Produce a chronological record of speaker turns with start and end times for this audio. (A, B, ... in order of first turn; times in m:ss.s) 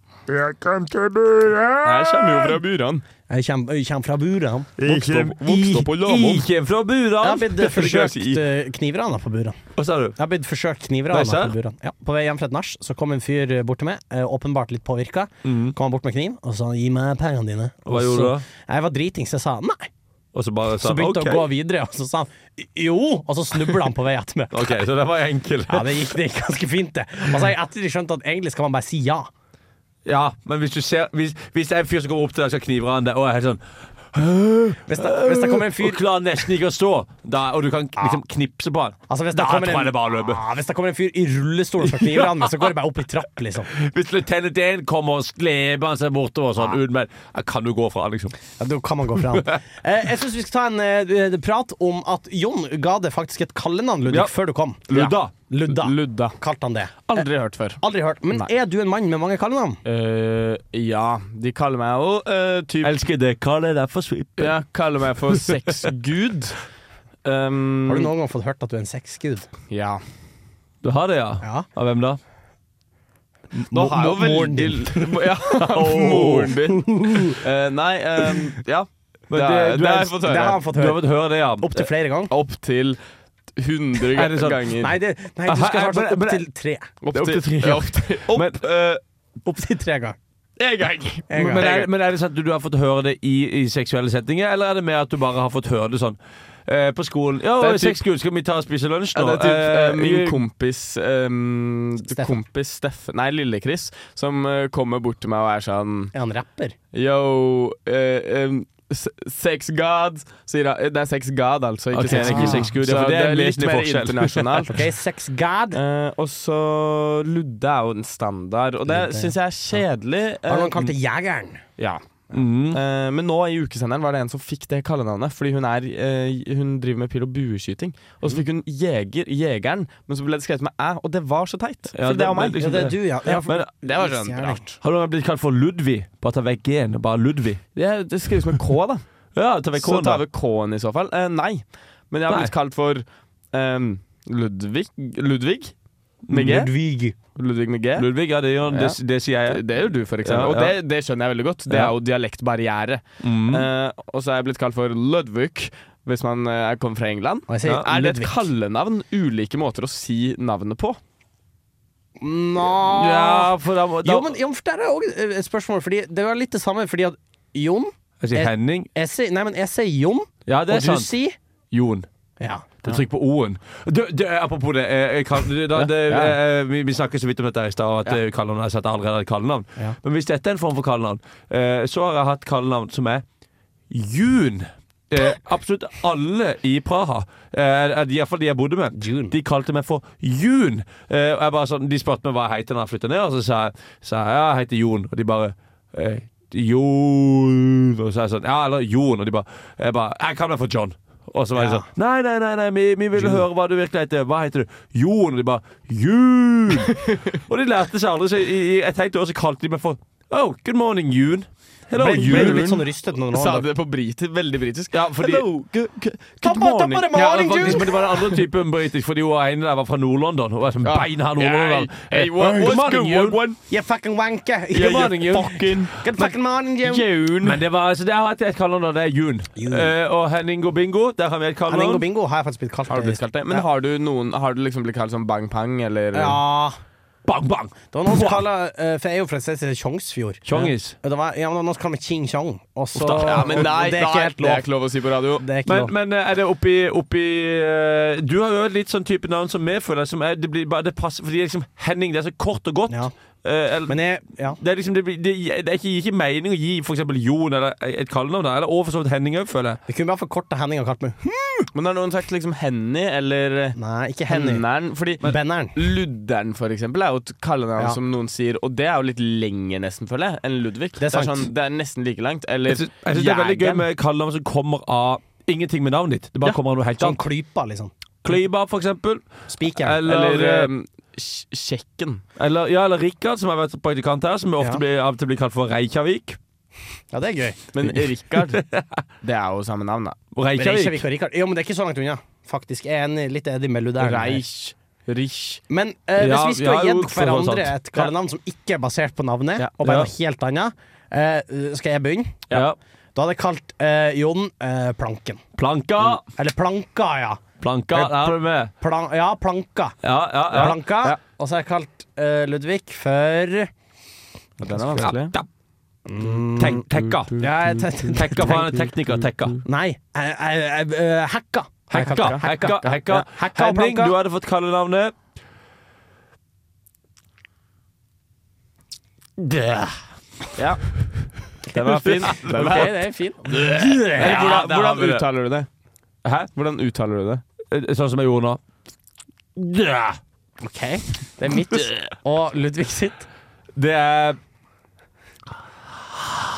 0:00.3-0:01.8 A
0:01.8-0:03.0 B
0:02.0-0:02.4 C
0:03.3-0:05.3 C
0:04.8-0:08.4 A
0:05.0-0:06.4 B
0:07.2-0:09.6 C
0:09.8-0:10.2 A
0:10.2-0:19.9 C
0:11.1-0:11.6 A
0:15.4-0:15.8 A
0:17.9-0:18.5 A
0:20.3-0:21.5 A
0:20.8-0:24.8 C
0:24.5-0:26.1 A
0:25.7-0:29.3 C
0:30.1-0:40.4 A
0:34.9-0:36.0 C
0:38.0-0:38.2 C
0:39.1-0:43.7 C
0:41.8-0:42.7 A
0:43.7-0:48.4 A
0:48.6-0:54.9 C
0:54.9-0:55.3 A
0:55.5-0:57.2 C
0:55.7-0:56.4 B
0:57.1-0:57.8 B
0:57.8-0:59.8 C
0:59.8-1:03.0 B
1:02.8-1:04.6 A
1:04.4-1:06.6 B
1:07.2-1:08.1 B
1:07.9-1:09.5 C
1:09.7-1:10.0 B
1:10.8-1:12.2 A
1:13.5-1:17.4 C
1:13.7-1:20.6 B
1:15.6-1:16.5 A
1:19.3-1:21.9 A
1:20.2-1:22.3 C
1:22.3-1:23.0 B
1:23.6-1:24.9 B
1:24.1-1:24.8 A
1:24.8-1:27.0 C
1:25.5-1:26.4 A
1:27.0-1:29.0 B
1:27.1-1:28.6 A
1:29.4-1:30.2 C
1:30.6-1:31.9 B
1:31.3-1:31.7 C
1:31.4-1:40.4 A
1:37.6-1:38.0 B
1:39.2-1:46.1 B
1:42.0-1:42.4 C
1:46.1-1:46.8 C
1:46.9-1:54.7 B
1:51.9-1:54.5 A
1:52.1-1:52.7 C
1:54.6-1:55.8 C
1:55.7-2:00.9 B
1:58.9-1:59.8 C
2:00.5-2:01.6 C
2:01.8-2:14.8 B
2:02.3-2:02.8 A
2:11.9-2:13.7 A
2:12.6-2:14.6 C
2:14.8-2:17.6 A
2:17.8-2:19.0 B
2:19.4-2:20.2 A
2:19.8-2:25.8 B
2:22.3-2:22.5 A
2:26.3-2:26.6 A
2:26.3-2:26.7 B
2:26.4-2:27.2 C
2:27.4-2:28.1 B
2:28.0-2:29.6 A
2:28.7-2:41.0 B
2:30.2-2:30.8 A
2:31.7-2:32.0 A
2:33.2-2:33.7 A
2:37.5-2:38.5 C
2:37.6-2:37.9 A
2:42.2-2:51.4 C
2:42.9-2:44.3 A
2:48.2-2:48.9 A
2:50.5-2:51.1 A
2:51.7-2:52.1 A
2:52.4-2:53.0 C
2:52.8-3:03.2 A
2:55.8-2:56.4 B
3:03.9-3:32.8 A
3:09.0-3:09.4 C
3:21.6-3:21.9 C
3:31.9-3:33.7 C
3:32.1-3:32.7 B
3:33.3-3:37.1 B
3:34.9-3:35.7 A
3:36.4-3:38.3 C
3:36.4-3:43.5 A
3:40.8-3:43.6 B
3:43.7-3:47.1 C
3:44.8-3:46.0 B
3:44.8-3:45.8 A
3:46.8-3:47.6 B
3:47.4-3:52.0 A
3:49.6-3:49.9 C
3:51.7-3:53.6 C
3:52.9-3:56.4 B
3:56.1-3:56.8 C
3:57.3-3:58.4 A
3:57.9-4:04.7 C
4:00.5-4:01.0 A
4:02.9-4:03.8 A
4:03.2-4:05.4 B
4:05.4-4:05.9 C
4:05.7-4:14.0 A
4:13.9-4:14.6 C
4:14.6-4:19.8 A
4:19.9-4:21.6 C
4:21.7-4:23.8 B
4:23.8-4:24.6 C
4:24.3-4:25.2 B
4:25.2-4:25.8 C
4:25.8-4:33.9 B
4:31.0-4:31.5 C
4:32.7-4:37.2 A
4:37.0-4:37.9 C
4:38.2-4:40.7 A
4:39.5-4:40.0 C
4:40.0-4:42.2 B
4:42.4-4:46.4 A
4:47.1-4:47.6 C
4:47.7-4:48.6 B
4:48.4-4:48.9 A
4:49.2-4:50.2 B
4:50.3-4:51.0 A
4:50.6-4:54.4 C
4:54.0-4:55.6 B
4:55.7-5:02.5 C
4:56.2-4:58.1 A
4:59.7-5:00.1 A
5:02.5-5:02.8 A
5:03.2-5:05.4 C
5:05.6-5:06.2 A
5:06.2-5:10.0 C
5:07.6-5:08.7 A
5:10.0-5:10.9 A
5:10.5-5:13.7 C
5:14.6-5:15.4 B
5:14.8-5:15.5 A
5:16.1-5:16.9 C
5:16.6-5:19.6 A
5:16.6-5:17.5 B
5:17.4-5:18.9 C
5:19.0-5:19.2 B
5:19.6-5:24.2 C
5:21.9-5:25.2 A
5:22.0-5:22.5 B
5:29.4-5:30.0 A
5:30.6-5:30.8 B
5:31.7-5:32.9 B
5:31.8-5:32.9 A
5:32.3-5:34.6 C
5:33.5-5:35.3 A
5:34.2-5:35.7 B
5:36.2-5:36.5 A
5:36.5-5:37.4 B
5:37.7-5:38.6 A
5:39.6-5:40.2 A
5:40.6-5:43.3 C
5:41.7-5:42.1 A
5:43.8-5:44.4 A